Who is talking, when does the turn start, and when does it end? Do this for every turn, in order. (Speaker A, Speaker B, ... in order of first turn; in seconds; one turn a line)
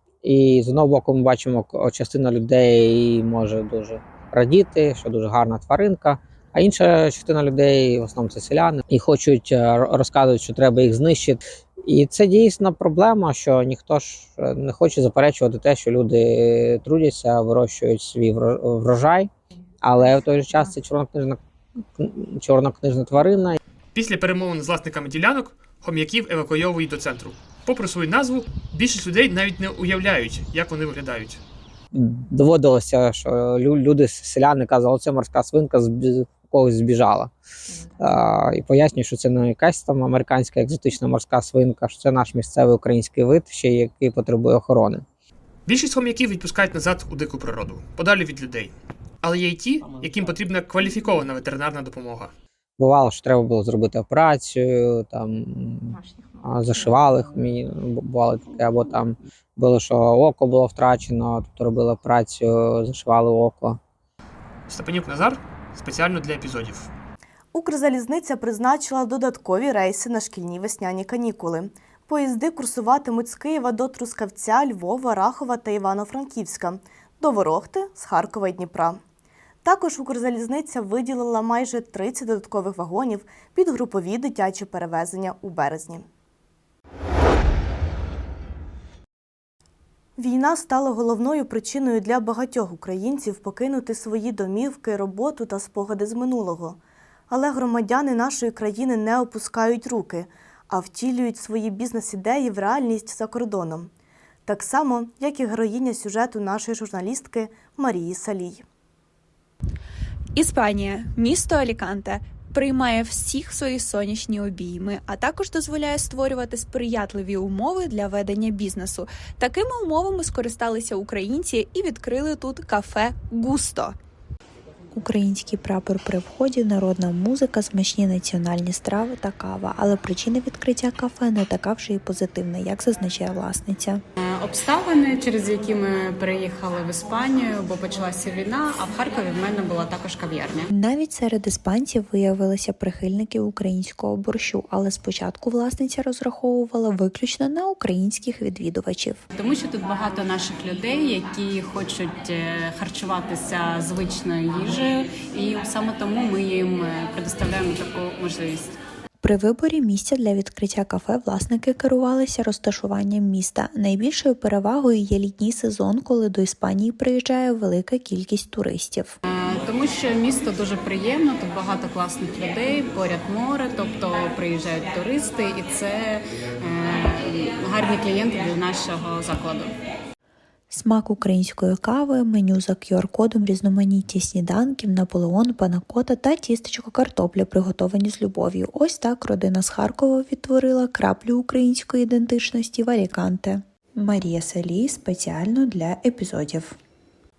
Speaker A: 0.2-19.3
Speaker A: 19.8-21.4
Speaker A: 22.0-23.6
Speaker B: 23.9-31.4
Speaker A: 31.9-37.3
Speaker A: 38.0-45.0
Speaker B: 45.7-52.3
Speaker A: 52.8-63.8
Speaker B: 64.7-66.9
Speaker C: 67.5-79.0
Speaker C: 79.6-86.1
Speaker C: 90.2-96.8
Speaker C: 97.3-103.9
Speaker C: 104.5-108.6
Speaker D: 110.4-124.0
Speaker E: 124.9-134.0
Speaker F: 134.2-140.7
Speaker E: 140.7-149.2
Speaker F: 149.3-158.8
Speaker E: 159.2-169.2
Speaker F: 169.2-179.7
Speaker E: 180.7-196.7